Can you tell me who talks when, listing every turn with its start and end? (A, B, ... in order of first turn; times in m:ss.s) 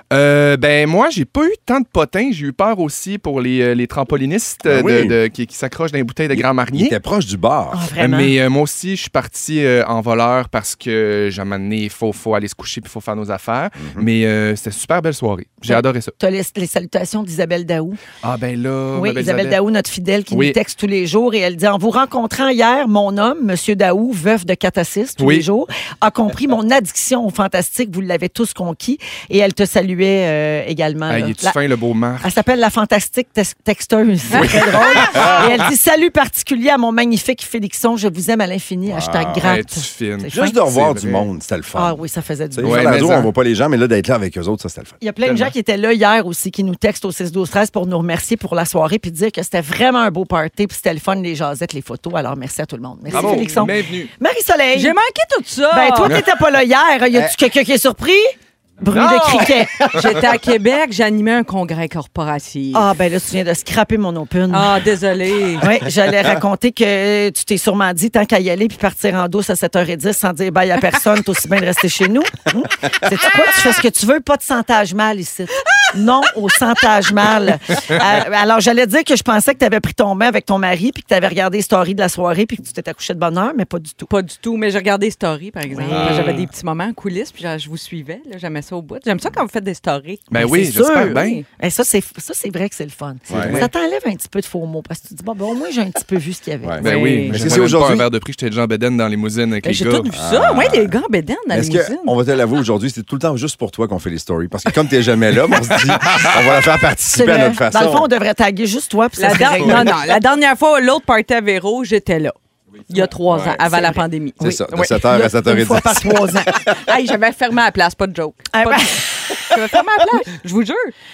0:00.1-0:07.0 A
0:04.7-0:05.2 B
0:06.3-0:07.9 B
0:07.7-0:08.4 C
0:08.0-0:16.1 A
0:13.8-0:14.1 B
0:15.7-0:18.0 C
0:18.2-0:19.6 A
0:18.9-0:31.6 C
0:20.3-0:20.6 A
0:25.2-0:25.5 A
0:31.1-0:32.4 A
0:32.2-0:40.5 C
0:34.3-0:35.0 D
0:34.3-0:35.6 A
0:35.1-0:35.5 B
0:38.9-0:39.5 B
0:39.4-0:41.3 A
0:40.3-0:42.0 B
0:41.8-0:43.0 C
0:42.5-0:45.0 B
0:42.6-0:43.3 A
0:45.0-0:55.0 C
0:45.2-0:45.5 A
0:53.1-0:53.6 D
0:53.1-0:54.1 A
0:54.7-0:56.2 D
0:55.7-0:59.8 C
0:58.9-1:00.2 A
0:59.9-1:02.9 D
1:02.7-1:04.8 C
1:04.5-1:05.7 D
1:05.6-1:24.1 C
1:24.1-1:30.6 D
1:25.8-1:26.4 B
1:25.8-1:26.4 A
1:30.3-1:31.4 A
1:30.4-1:36.9 C
1:31.1-1:31.4 D
1:33.3-1:33.6 B
1:33.3-1:33.7 A
1:36.6-1:38.1 B
1:36.8-1:40.1 A
1:36.8-1:37.5 D
1:39.6-1:42.2 D
1:40.1-1:41.0 B
1:41.5-1:48.1 B
1:45.9-1:46.3 A
1:47.1-1:50.0 C
1:49.2-1:52.4 D
1:52.9-1:55.8 D
1:53.3-1:53.8 B
1:53.8-1:56.5 C
1:54.4-1:56.8 B
1:56.6-2:00.9 D
1:58.5-1:59.5 C